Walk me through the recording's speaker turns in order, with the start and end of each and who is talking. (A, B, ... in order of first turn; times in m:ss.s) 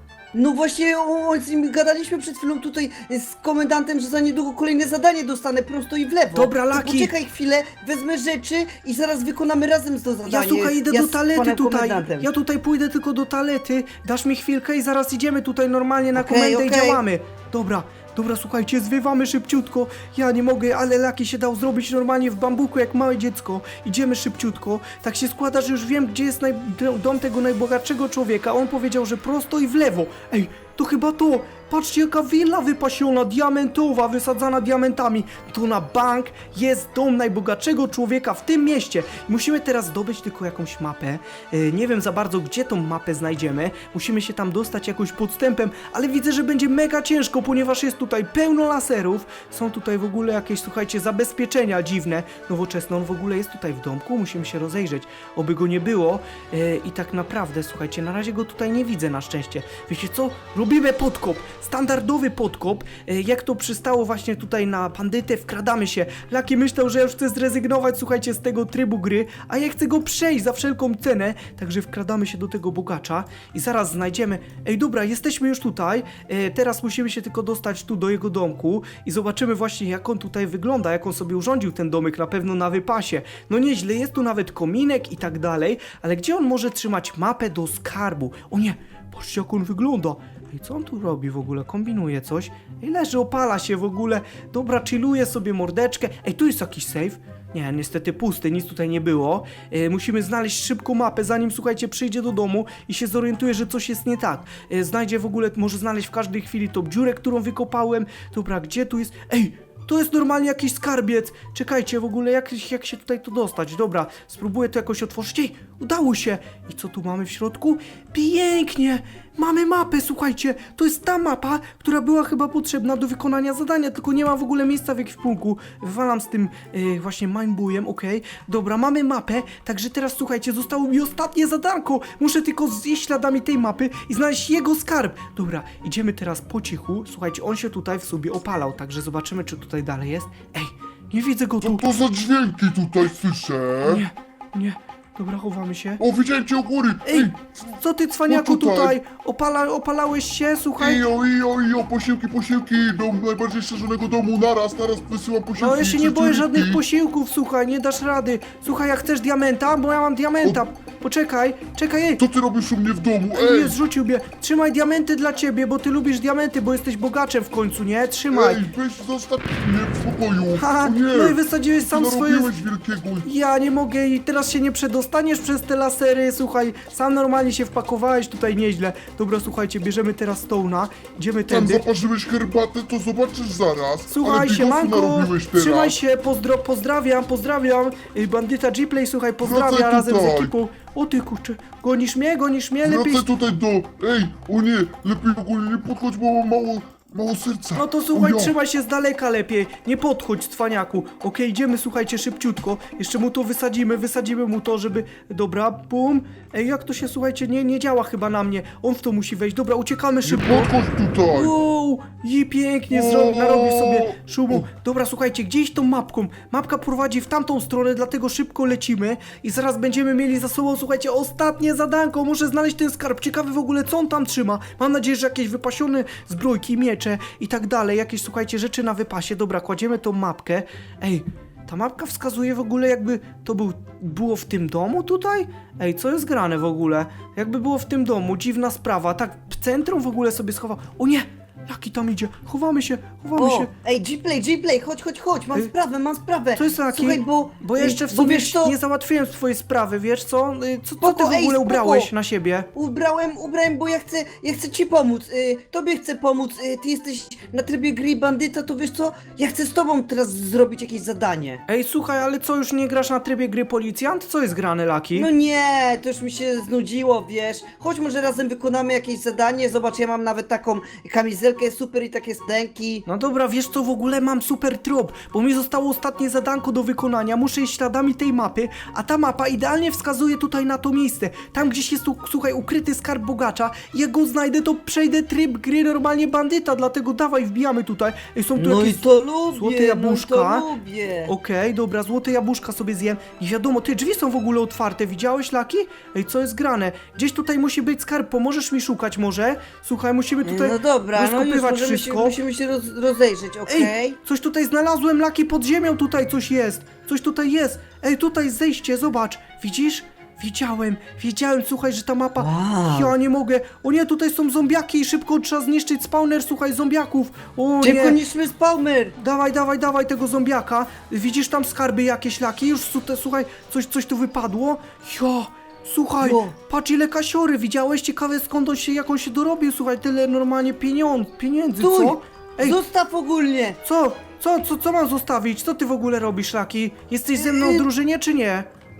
0:00.3-0:12.3 A
0:06.4-0:07.1 B
0:10.3-2:21.8 B
0:16.2-0:17.0 A
2:21.6-2:24.0 C
2:23.8-2:26.0 B
2:26.0-2:27.8 C
2:27.0-2:31.0 B
2:28.3-2:29.0 C
2:30.8-2:36.8 C
2:35.6-2:42.2 B
2:42.2-2:43.8 C
2:43.3-2:48.6 B
2:48.3-2:53.3 C
2:50.6-2:52.5 B
2:53.2-3:01.8 B
3:01.5-3:06.0 C
3:04.1-3:13.2 B
3:09.4-3:10.5 C
3:12.8-3:18.6 C
3:17.8-3:30.7 B
3:30.2-3:31.6 C
3:31.3-4:03.7 B
3:32.9-3:34.7 C
4:03.4-4:08.8 A
4:06.6-4:12.7 B
4:11.0-4:12.1 A
4:12.8-4:21.6 A
4:21.7-4:25.3 B
4:25.2-4:33.0 A
4:33.1-4:50.7 B
4:48.6-4:51.3 A
4:51.3-5:02.4 B
5:00.4-5:04.2 A
5:03.7-5:18.2 B
5:12.4-5:13.1 A
5:17.8-5:19.2 A
5:19.2-5:32.8 B
5:26.2-5:26.5 A
5:31.8-5:33.8 A
5:33.8-5:38.7 B
5:37.4-5:37.9 A